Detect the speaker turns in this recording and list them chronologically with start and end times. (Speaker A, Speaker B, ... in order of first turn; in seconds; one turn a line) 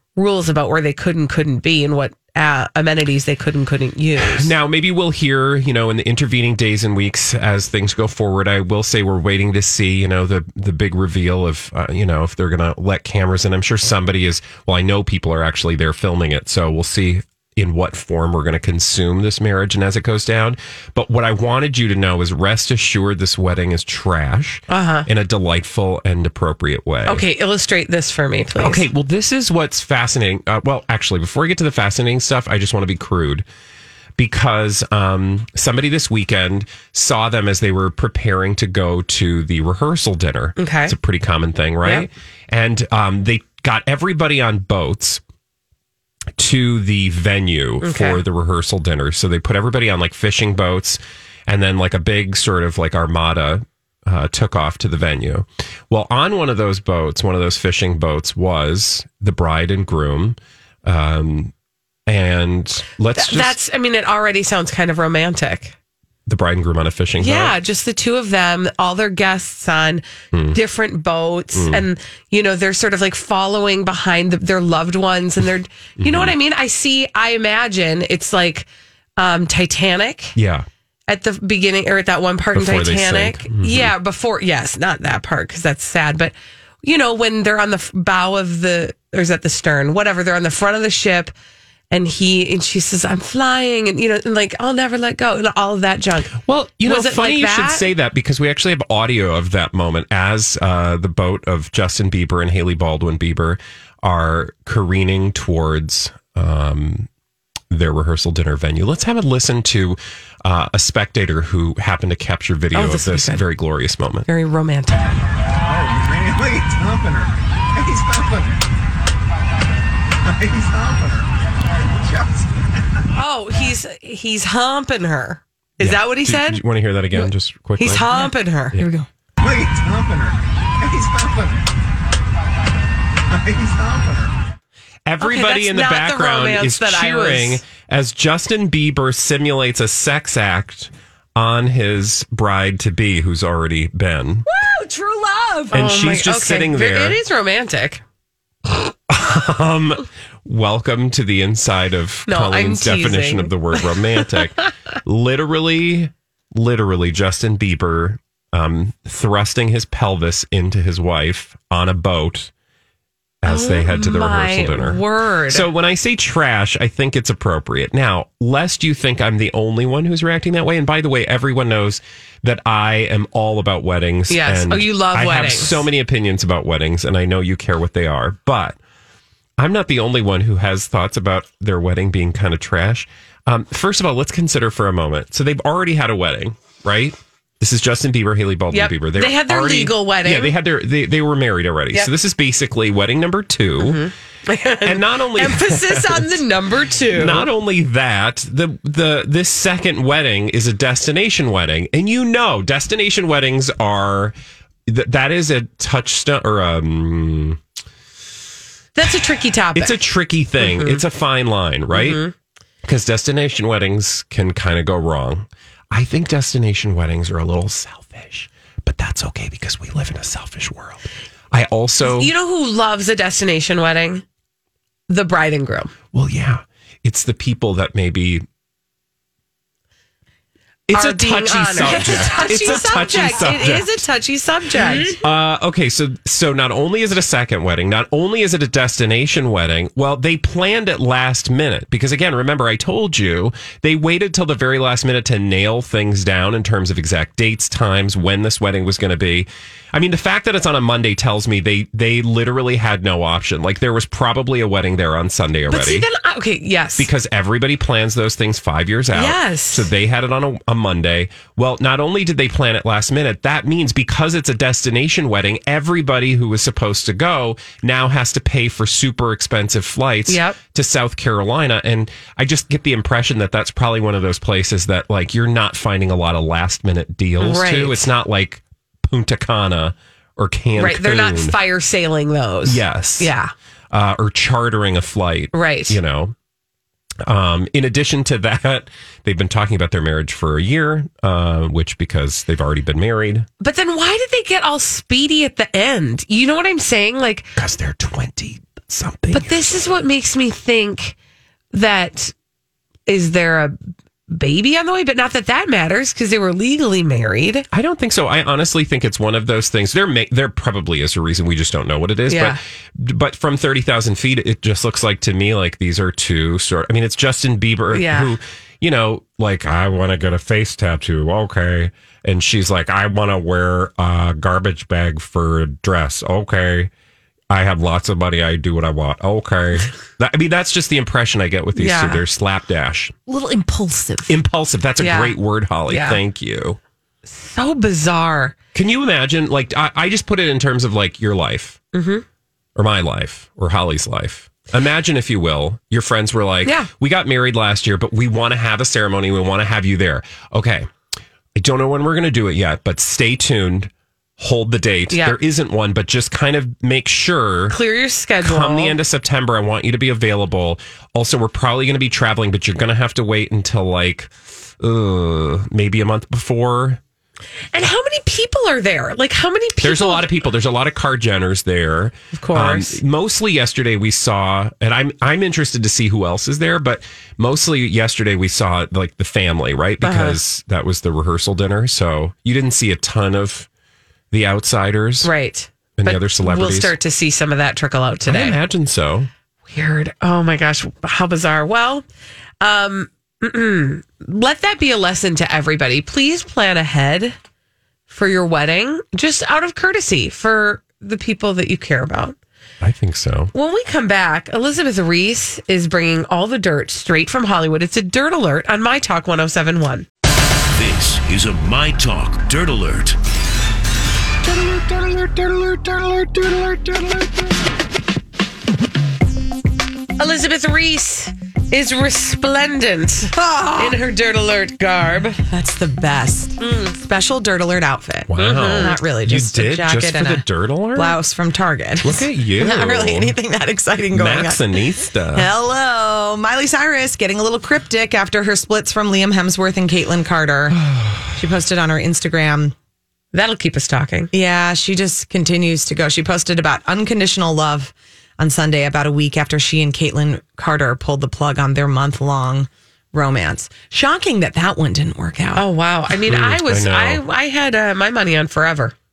Speaker A: 0.1-4.5
Speaker B: 4.2-27.3
Speaker A: 24.7-25.1
Speaker A: 27.1-28.8
Speaker B: 28.6-33.4
Speaker B: 34.2-45.2
Speaker A: 40.6-41.0
Speaker B: 46.4-61.5
Speaker A: 47.8-48.2
Speaker B: 62.1-63.5
Speaker A: 63.1-65.7
Speaker B: 66.3-67.5
Speaker A: 67.2-80.3
Speaker B: 70.3-70.6
Speaker B: 71.5-71.8
Speaker B: 76.0-76.3
Speaker B: 80.3-80.7
Speaker A: 81.1-91.3
Speaker B: 82.5-83.9
Speaker A: 91.9-97.9
Speaker B: 96.4-107.1
Speaker B: 107.7-114.3
Speaker A: 112.7-113.4
Speaker A: 114.3-115.1
Speaker C: 120.5-121.1
Speaker A: 123.1-126.6
Speaker B: 125.8-128.1
Speaker A: 127.8-128.8
Speaker D: 128.8-129.1
Speaker C: 129.4-130.3
Speaker C: 130.9-131.5
Speaker C: 133.4-134.3
Speaker B: 135.1-144.4
Speaker A: 135.2-137.6
Speaker D: 144.5-145.7
Speaker A: 145.4-148.0
Speaker B: 145.7-147.2
Speaker B: 149.1-162.5
Speaker A: 152.3-154.7
Speaker B: 163.4-178.8
Speaker A: 163.4-165.7
Speaker A: 174.3-175.8
Speaker B: 179.6-194.1
Speaker A: 188.7-190.6
Speaker A: 193.8-197.5
Speaker B: 194.8-196.4
Speaker B: 197.1-204.3
Speaker B: 204.9-207.6
Speaker A: 208.9-210.0
Speaker B: 209.7-212.2
Speaker A: 210.6-211.0
Speaker A: 211.9-212.3
Speaker B: 212.8-222.3
Speaker A: 222.0-224.2
Speaker A: 225.1-225.9
Speaker B: 226.1-228.4
Speaker B: 230.9-234.1
Speaker A: 230.9-235.2
Speaker B: 235.1-256.1
Speaker A: 255.7-257.1
Speaker B: 257.0-281.6
Speaker A: 259.1-259.9
Speaker A: 270.3-270.6
Speaker A: 277.4-278.1
Speaker A: 280.7-283.5
Speaker B: 282.6-283.3
Speaker B: 283.9-286.3
Speaker A: 285.5-286.0
Speaker B: 287.2-293.5
Speaker A: 293.6-297.5
Speaker B: 297.6-299.9
Speaker A: 299.3-301.1
Speaker A: 301.7-302.3
Speaker A: 303.1-303.8
Speaker A: 304.3-307.6
Speaker B: 307.7-326.9
Speaker A: 312.3-312.6
Speaker A: 317.9-318.4
Speaker B: 327.5-333.1
Speaker A: 331.7-332.2
Speaker D: 333.3-334.3
Speaker B: 334.3-336.8
Speaker A: 335.0-335.4
Speaker A: 335.9-336.2
Speaker A: 337.2-338.5
Speaker B: 338.7-341.8
Speaker A: 341.9-342.2
Speaker B: 342.8-350.9
Speaker A: 346.6-346.9
Speaker B: 351.5-357.8
Speaker A: 355.1-355.4
Speaker A: 357.7-359.0
Speaker B: 358.4-367.0
Speaker A: 367.7-370.4
Speaker B: 369.8-383.7
Speaker A: 372.3-373.0
Speaker A: 380.0-380.4
Speaker B: 384.3-385.3
Speaker A: 385.2-388.6
Speaker B: 386.0-387.0
Speaker B: 388.2-389.3
Speaker A: 389.7-392.0
Speaker A: 392.6-397.4
Speaker A: 398.1-402.4
Speaker B: 402.8-403.5
Speaker A: 403.5-410.1
Speaker E: 410.7-413.2
Speaker A: 420.2-425.4
Speaker F: 423.3-424.0
Speaker F: 425.5-434.7
Speaker A: 426.6-427.0
Speaker B: 428.3-431.2
Speaker A: 428.3-429.0
Speaker B: 432.0-433.4
Speaker B: 434.1-435.5
Speaker F: 435.3-440.8
Speaker B: 440.7-441.4
Speaker F: 441.3-442.7
Speaker A: 443.3-444.3
Speaker F: 444.3-455.6
Speaker A: 455.5-458.9
Speaker B: 456.2-457.2